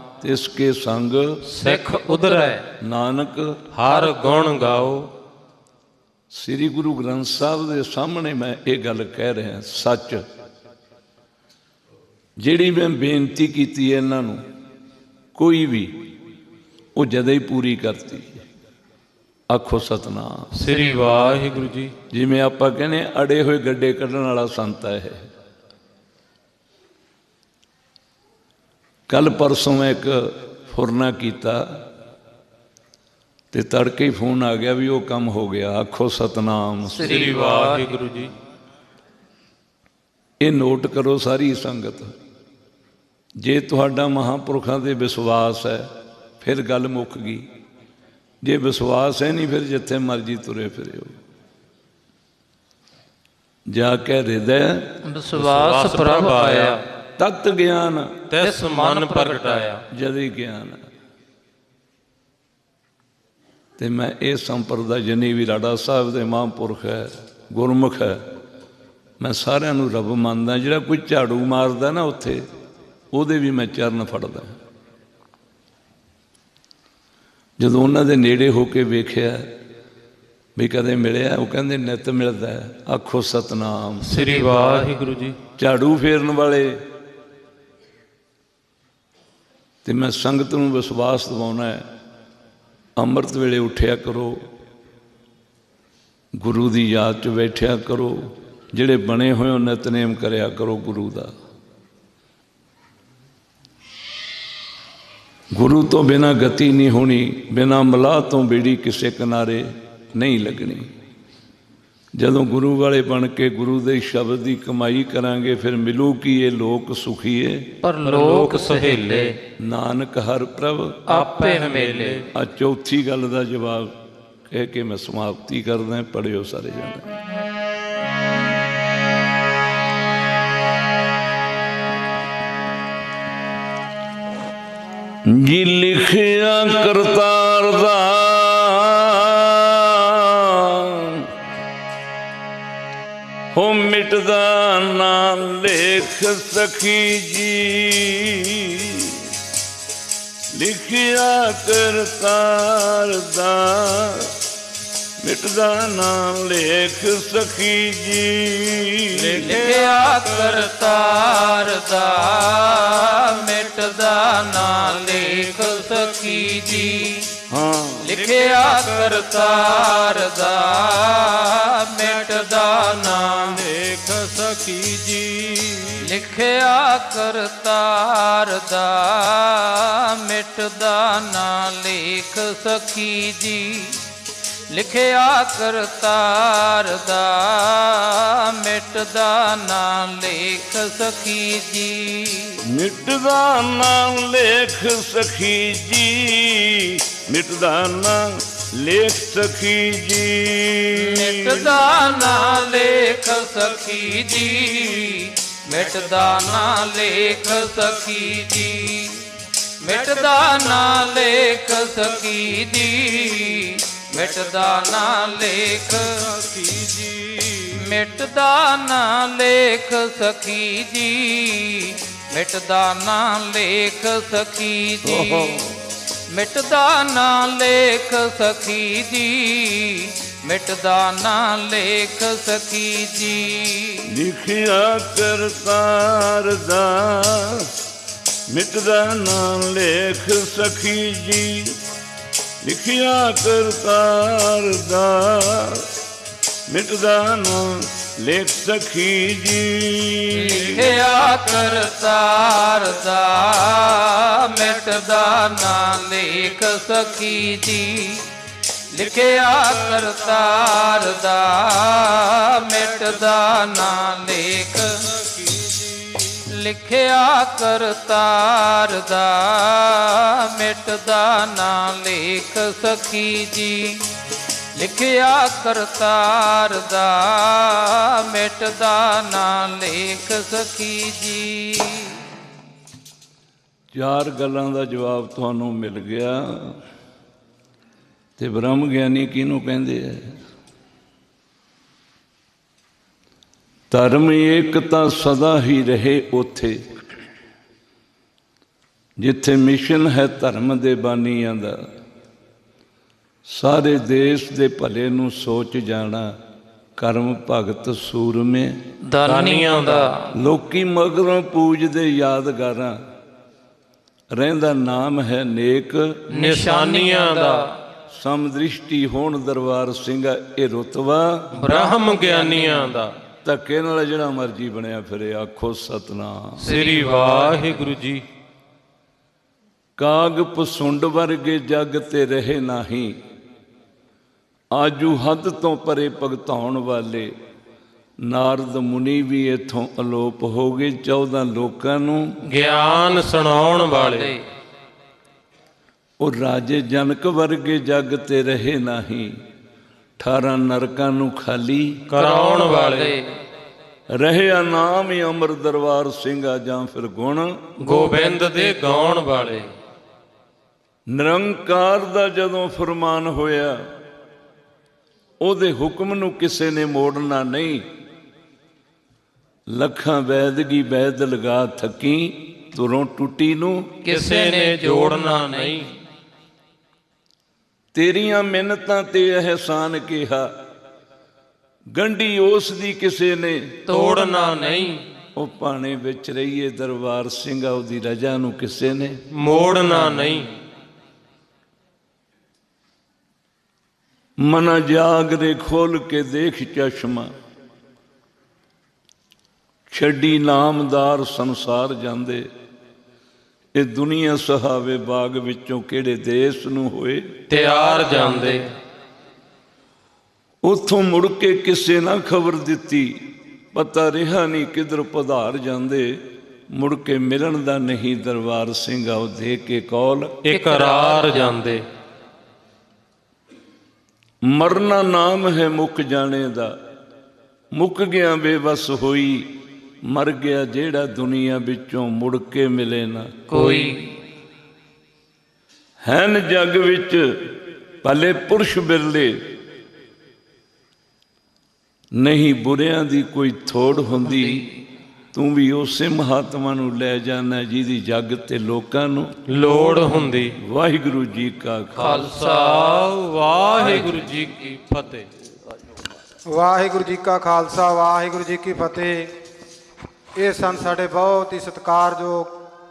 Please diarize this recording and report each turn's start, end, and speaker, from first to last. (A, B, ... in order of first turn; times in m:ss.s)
0:00.2-0:01.4 A
0:01.5-0:02.6 B
0:01.5-0:02.6 C
0:02.8-0:03.6 A
0:03.7-0:05.1 C
0:06.3-0:10.2 A
0:12.4-0:14.4 A
0:15.3-0:16.0 A
0:17.0-0:18.4 A
0:19.5-0:20.5 A
0:20.5-0:21.9 C
0:22.1-0:25.3 A
0:29.1-0:31.8 A
0:33.5-0:37.2 A
0:36.9-0:37.9 B
0:37.0-0:38.3 C
0:40.4-0:42.1 A
0:43.4-0:47.5 A
0:48.4-0:51.2 A
0:53.7-0:55.0 A
0:55.0-0:56.8 B
0:55.4-0:56.8 C
0:57.2-0:58.2 A
0:58.3-0:59.8 C
0:58.4-0:59.4 B
0:59.9-1:00.8 A
1:03.8-1:08.2 A
1:09.2-1:12.4 A
1:13.1-1:14.6 A
1:17.6-1:19.5 A
1:20.6-1:24.1 A
1:24.0-1:25.4 C
1:25.6-1:26.8 A
1:29.8-1:31.9 A
1:33.0-1:34.4 A
1:36.4-1:41.3 A
1:45.5-1:50.9 A
1:52.2-1:57.7 A
1:57.8-1:59.3 B
1:58.0-1:59.3 C
1:59.6-2:01.0 A
2:01.1-2:02.3 B
2:01.1-2:02.2 C
2:02.3-2:07.1 A
2:15.2-2:21.3 A
2:23.5-2:29.3 A
2:30.5-2:34.3 A
2:35.2-2:39.4 A
2:39.2-2:40.1 C
2:39.4-2:47.3 B
2:47.5-2:48.1 A
2:48.0-2:53.6 B
2:53.6-2:56.0 C
2:56.0-3:04.0 B
3:04.7-3:12.6 B
3:12.6-3:21.7 A
3:20.9-3:29.2 B
3:29.8-3:36.2 B
3:36.3-3:37.7 C
3:37.7-3:45.6 B
3:45.0-3:45.8 A
3:46.3-3:54.1 B
3:54.1-3:57.7 A
3:58.5-4:01.8 A
4:02.6-4:05.9 A
4:06.7-4:10.6 A
4:10.3-4:18.3 B
4:18.9-4:25.0 B
4:25.4-4:26.3 C
4:26.5-4:34.0 B
4:34.8-4:42.2 B
4:43.9-4:46.8 A
4:48.4-4:50.4 A
4:53.9-4:56.8 A
4:59.2-5:01.9 A
5:03.4-5:06.4 A
5:07.0-5:08.8 A
5:09.0-5:10.3 B
5:09.2-5:10.1 C
5:10.3-5:13.0 A
5:14.3-5:16.2 A
5:16.3-5:17.8 B
5:16.3-5:17.7 C
5:18.1-5:21.5 A
5:21.5-5:23.0 B
5:21.6-5:23.1 C
5:23.4-5:26.6 A
5:26.6-5:27.9 B
5:26.6-5:28.2 C
5:30.0-5:33.2 A
5:34.7-5:37.3 A
5:38.2-5:42.4 A
5:42.4-5:44.4 C
5:46.2-5:49.3 A
5:50.2-5:52.0 A
5:52.1-5:53.2 C
5:52.1-5:53.3 B
5:54.1-5:57.7 A
5:57.8-5:59.7 C
5:57.8-5:58.3 B
6:01.1-6:03.9 A
6:05.4-6:07.9 A
6:09.7-6:13.9 A
6:14.0-6:15.8 B
6:14.1-6:15.9 C
6:17.9-6:20.5 A
6:21.9-6:23.8 A
6:23.9-6:25.0 C
6:24.0-6:24.3 B
6:25.4-6:29.2 A
6:29.3-6:30.5 C
6:34.4-6:37.3 A
6:39.9-6:42.5 A
6:43.8-6:47.3 A
6:47.5-6:48.6 C
6:50.6-7:00.4 A
7:00.4-7:01.8 C
7:00.5-7:01.6 B
7:04.4-7:06.8 A
7:07.7-7:13.4 A
7:13.5-7:14.1 B
7:13.6-7:13.9 C
7:16.0-7:17.5 A
7:18.0-7:19.4 A
7:22.2-7:24.8 A
7:24.3-7:24.7 B
7:25.3-7:32.3 A
7:29.5-7:30.6 C
7:32.0-7:33.1 B
7:32.1-7:35.3 C
7:36.5-7:39.3 D
7:40.4-7:42.6 D